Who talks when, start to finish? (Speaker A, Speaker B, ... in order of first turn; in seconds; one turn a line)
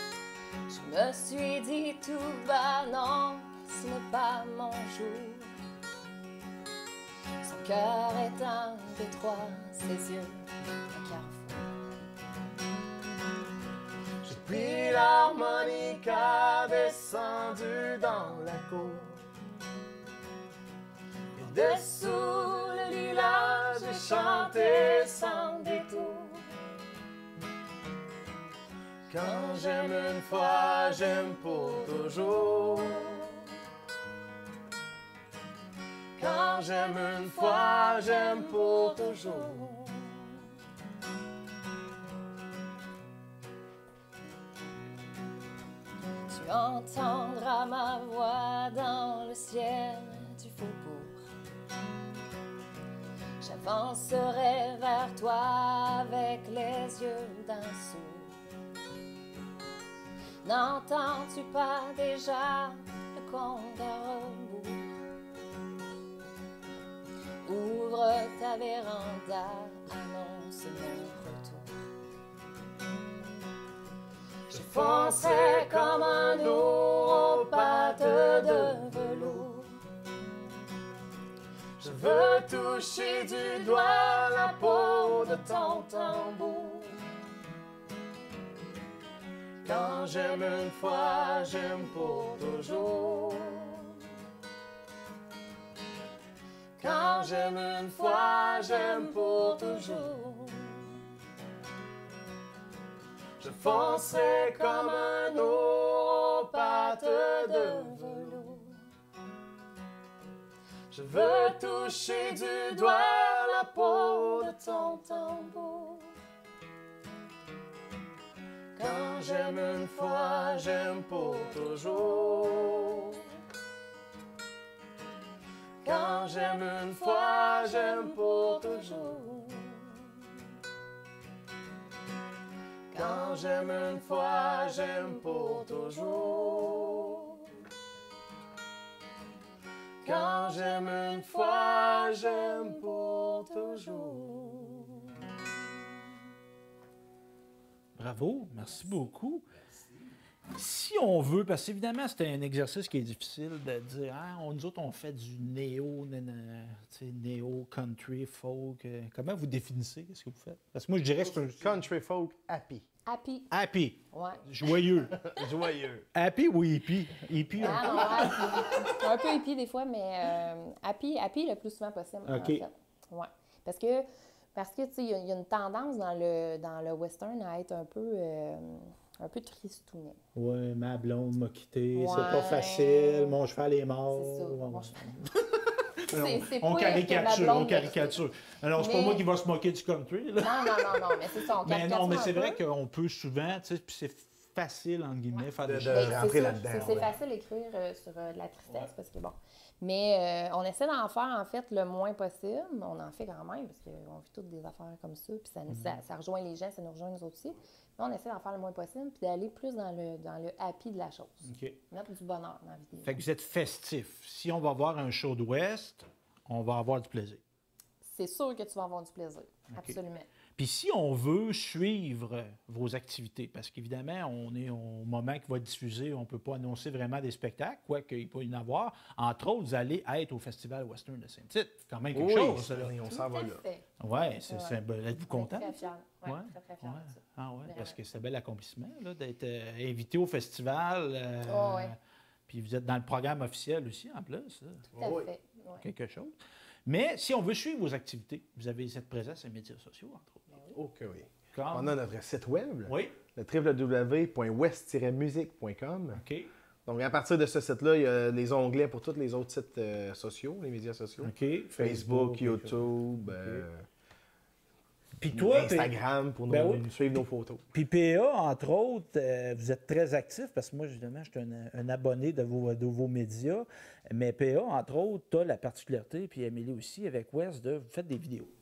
Speaker A: 0.7-5.5
Speaker A: 7.4-11.9
Speaker B: 14.2-19.2
Speaker A: 14.3-16.8
Speaker B: 21.4-25.5
Speaker A: 21.4-26.4
Speaker B: 29.1-33.1
Speaker A: 29.2-33.4
Speaker B: 36.2-39.7
Speaker A: 36.2-40.4
Speaker A: 46.3-51.3
Speaker A: 53.4-58.4
Speaker A: 60.4-65.0
Speaker A: 67.4-71.7
Speaker B: 74.5-79.4
Speaker A: 74.5-79.8
Speaker B: 81.8-86.4
Speaker A: 81.8-87.0
Speaker B: 89.7-92.9
Speaker A: 89.7-94.0
Speaker A: 96.8-100.9
Speaker B: 96.8-100.1
Speaker B: 103.4-108.4
Speaker A: 103.5-108.8
Speaker B: 110.9-115.0
Speaker A: 111.1-116.1
Speaker A: 118.8-123.2
Speaker B: 118.8-123.0
Speaker B: 125.8-129.2
Speaker A: 125.8-130.1
Speaker A: 132.9-137.5
Speaker B: 132.9-137.1
Speaker B: 140.0-144.6
Speaker A: 140.1-145.0
Speaker C: 148.0-149.5
Speaker C: 150.6-161.8
Speaker B: 161.2-162.9
Speaker A: 163.1-163.5
Speaker C: 163.5-165.2
Speaker A: 164.1-164.4
Speaker B: 165.1-166.1
Speaker C: 166.2-168.9
Speaker A: 167.6-180.2
Speaker B: 167.7-168.4
Speaker C: 172.2-172.6
Speaker C: 180.3-196.2
Speaker A: 181.9-183.4
Speaker A: 184.1-185.1
Speaker A: 186.1-188.2
Speaker A: 188.8-189.2
Speaker A: 190.4-192.6
Speaker A: 195.4-213.2
Speaker B: 195.6-197.1
Speaker C: 205.7-205.9
Speaker C: 211.5-211.8
Speaker C: 213.1-217.4
Speaker A: 218.0-220.3
Speaker C: 219.7-220.0
Speaker C: 220.6-233.0
Speaker B: 232.1-233.6
Speaker A: 233.1-234.8
Speaker C: 234.0-242.0
Speaker A: 235.3-238.0
Speaker A: 241.5-241.9
Speaker C: 242.5-244.9
Speaker A: 244.9-245.9
Speaker B: 244.9-245.3
Speaker C: 245.8-246.3
Speaker C: 246.9-250.4
Speaker A: 250.5-250.8
Speaker B: 250.8-256.2
Speaker C: 251.5-251.9
Speaker C: 252.9-253.2
Speaker C: 256.2-256.5
Speaker B: 256.9-263.9
Speaker C: 261.2-263.7
Speaker C: 265.2-265.9
Speaker B: 265.3-267.6
Speaker C: 266.5-267.2
Speaker C: 267.7-278.5